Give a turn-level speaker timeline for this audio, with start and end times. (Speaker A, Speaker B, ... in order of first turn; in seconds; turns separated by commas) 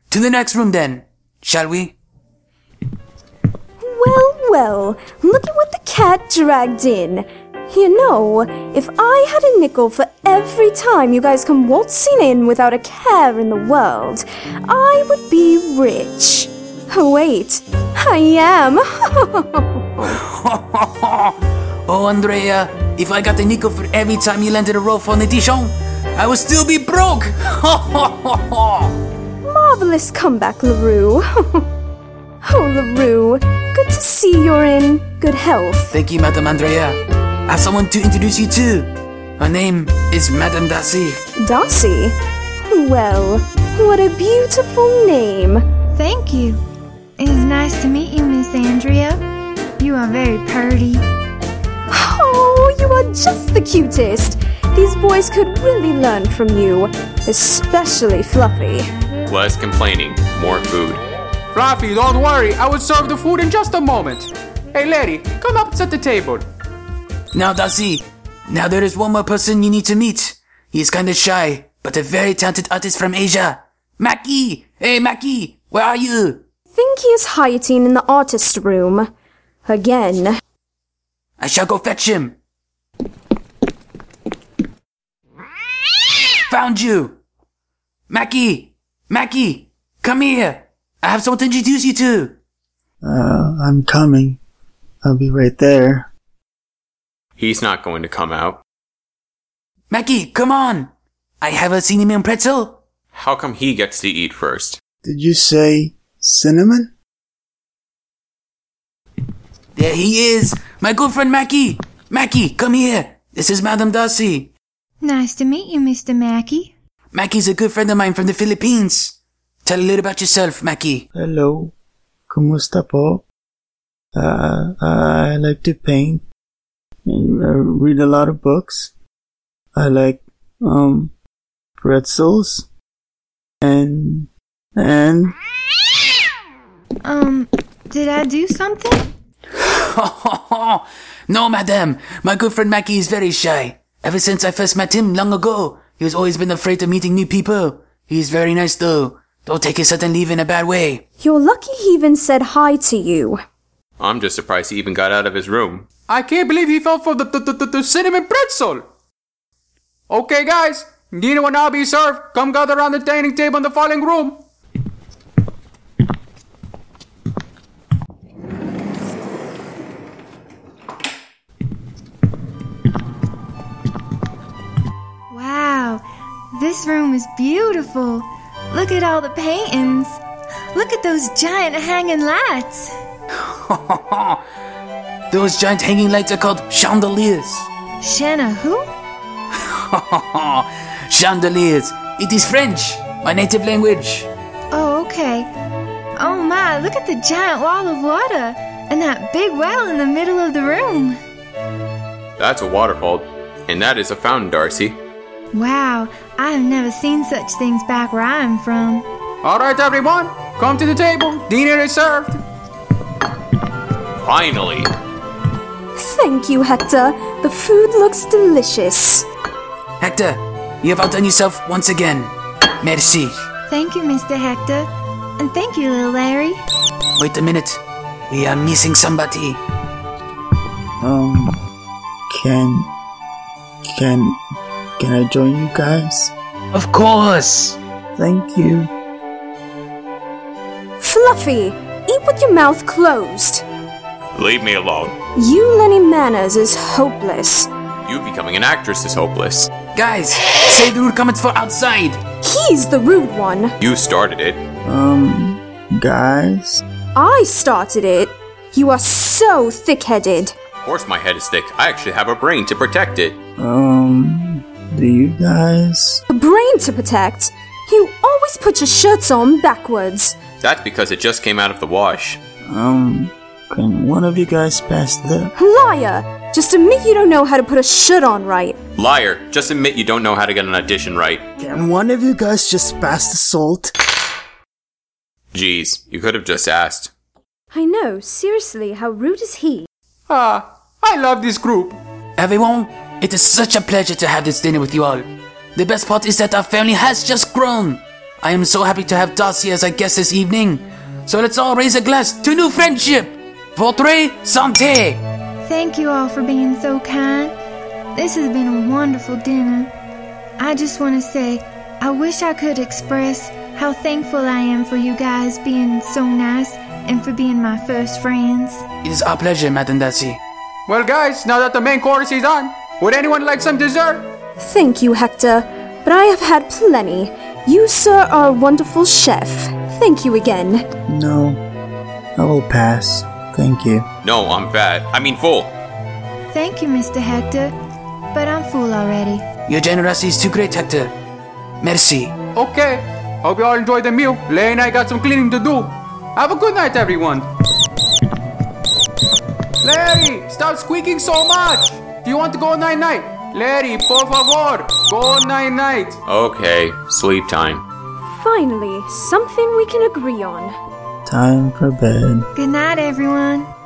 Speaker A: 0.1-1.9, Speaker B: 3.8-20.2, Speaker A: 20.1-21.4, Speaker A: 21.9-28.9, Speaker B: 29.4-31.7, Speaker B: 32.4-35.9, Speaker A: 35.9-41.2, Speaker B: 41.4-42.1, Speaker B: 42.7-45.6, Speaker C: 45.9-46.6, Speaker C: 47.2-49.2, Speaker C: 49.8-51.0, Speaker B: 51.9-58.9, Speaker D: 59.3-61.0, Speaker E: 61.5-66.5, Speaker A: 67.3-76.4, Speaker B: 76.7-79.1, Speaker B: 79.7-80.4, Speaker A: 81.4-82.3, Speaker A: 86.5-87.2, Speaker A: 88.1-92.3, Speaker F: 93.0-94.4, Speaker F: 95.0-96.1, Speaker D: 97.4-98.6, Speaker A: 99.9-102.8, Speaker D: 103.1-104.8, Speaker F: 105.0-106.9, Speaker A: 109.8-114.5, Speaker C: 115.0-116.7, Speaker A: 117.1-121.0, Speaker F: 121.1-121.7, Speaker F: 122.3-123.2, Speaker F: 124.1-126.2, Speaker F: 127.0-128.9, Speaker F: 129.7-131.1, Speaker F: 131.8-132.7, Speaker F: 133.6-135.3, Speaker C: 137.0-139.1, Speaker A: 139.6-151.0, Speaker B: 151.2-153.4, Speaker D: 154.0-155.9, Speaker E: 156.1-158.8, Speaker E: 160.1-164.4, Speaker C: 175.3-180.2, Speaker C: 180.7-182.9, Speaker A: 183.6-184.4, Speaker A: 185.3-187.7, Speaker C: 188.0-188.8, Speaker A: 189.7-194.3, Speaker C: 194.7-195.5, Speaker C: 196.2-201.2, Speaker D: 202.4-205.0, Speaker C: 205.5-209.0, Speaker E: 209.4-212.4, Speaker D: 214.2-214.9, Speaker B: 215.9-219.2, Speaker A: 220.0-223.4, Speaker C: 223.7-226.6, Speaker A: 227.2-229.6, Speaker F: 231.0-231.6, Speaker F: 232.3-232.9, Speaker F: 233.8-234.4, Speaker F: 235.0-236.3, Speaker A: 236.7-237.8, Speaker F: 238.2-238.9, Speaker B: 241.0-243.6, Speaker D: 244.3-245.2, Speaker B: 245.3-247.7, Speaker D: 248.0-249.7, Speaker A: 249.9-252.2, Speaker B: 252.4-253.7, Speaker D: 253.8-254.6, Speaker F: 254.8-256.8, Speaker B: 257.1-260.5, Speaker D: 260.8-263.4, Speaker F: 263.6-266.2, Speaker B: 266.3-270.4, Speaker D: 270.6-272.4, Speaker F: 272.6-275.5, Speaker B: 275.5-278.8, Speaker D: 278.9-281.4, Speaker F: 281.6-283.9, Speaker D: 285.5-287.1, Speaker B: 287.7-289.9, Speaker E: 290.3-292.0, Speaker A: 292.4-305.2, Speaker C: 305.6-307.5, Speaker C: 308.1-309.9, Speaker C: 310.6-318.8, Speaker A: 319.0-320.4, Speaker E: 320.9-324.3, Speaker B: 324.6-330.9, Speaker F: 331.1-331.6, Speaker F: 332.4-334.1, Speaker D: 334.2-335.7, Speaker C: 336.5-337.7, Speaker C: 338.3-339.4, Speaker A: 339.7-341.1, Speaker A: 341.8-342.4, Speaker E: 342.5-347.5, Speaker E: 349.8-356.2, Speaker D: 356.2-357.8, Speaker B: 358.3-360.8, Speaker F: 361.2-362.5, Speaker C: 362.6-363.7